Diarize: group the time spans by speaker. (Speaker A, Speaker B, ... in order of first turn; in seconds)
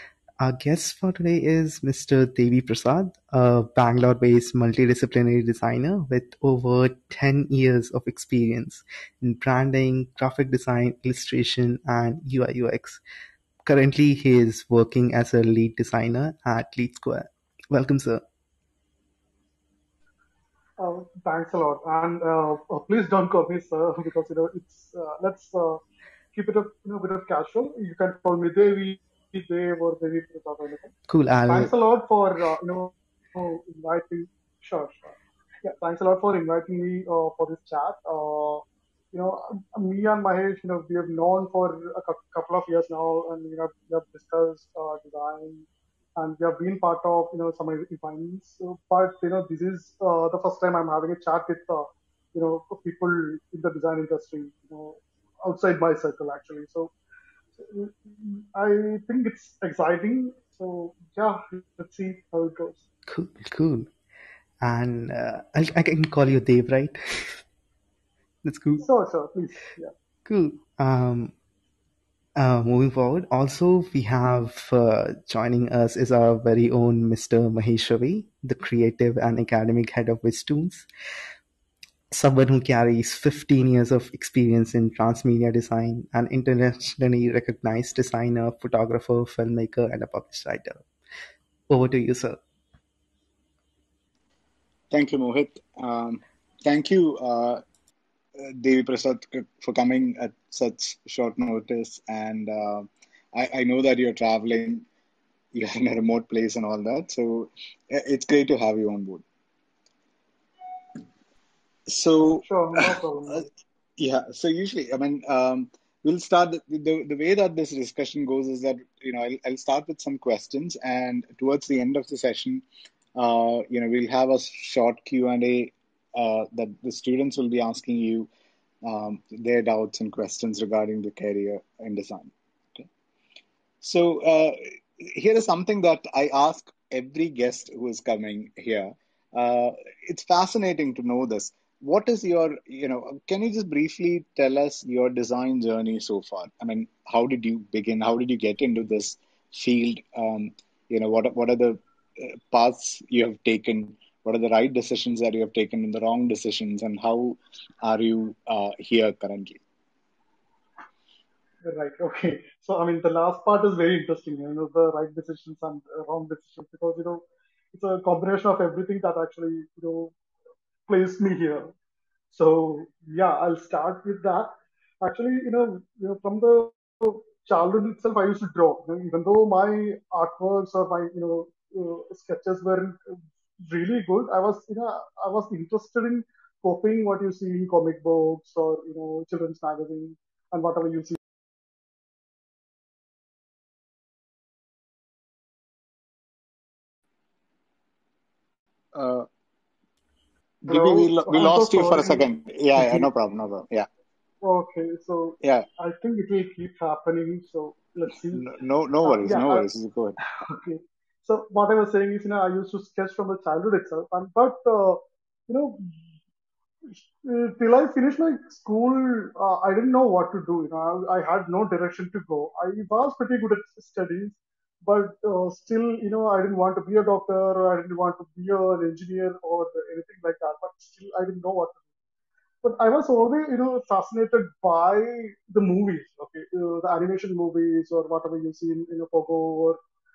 Speaker A: 0.4-13.0, 13.6-18.2, 31.1-31.7, 63.1-63.9, 64.6-67.4, 68.4-68.9, 70.2-71.3, 72.3-80.9, 82.1-90.8, 91.7-92.4
Speaker B: 20.8-25.8, 26.3-30.9, 31.5-56.9, 57.6-62.8, 68.8-69.9, 112.4-113.5, 161.6-170.1, 170.9-171.7, 172.3-191.2, 200.6-203.1, 204.4-208.4, 209.0-209.8, 210.4-215.9, 216.9-231.8, 232.6-239.8
Speaker C: 94.9-97.6, 98.4-104.8, 105.5-109.2, 111.9-113.0, 114.0-122.6, 123.1-128.3, 128.8-132.9, 133.8-159.6, 198.9-199.3, 200.6-203.9, 208.3-210.2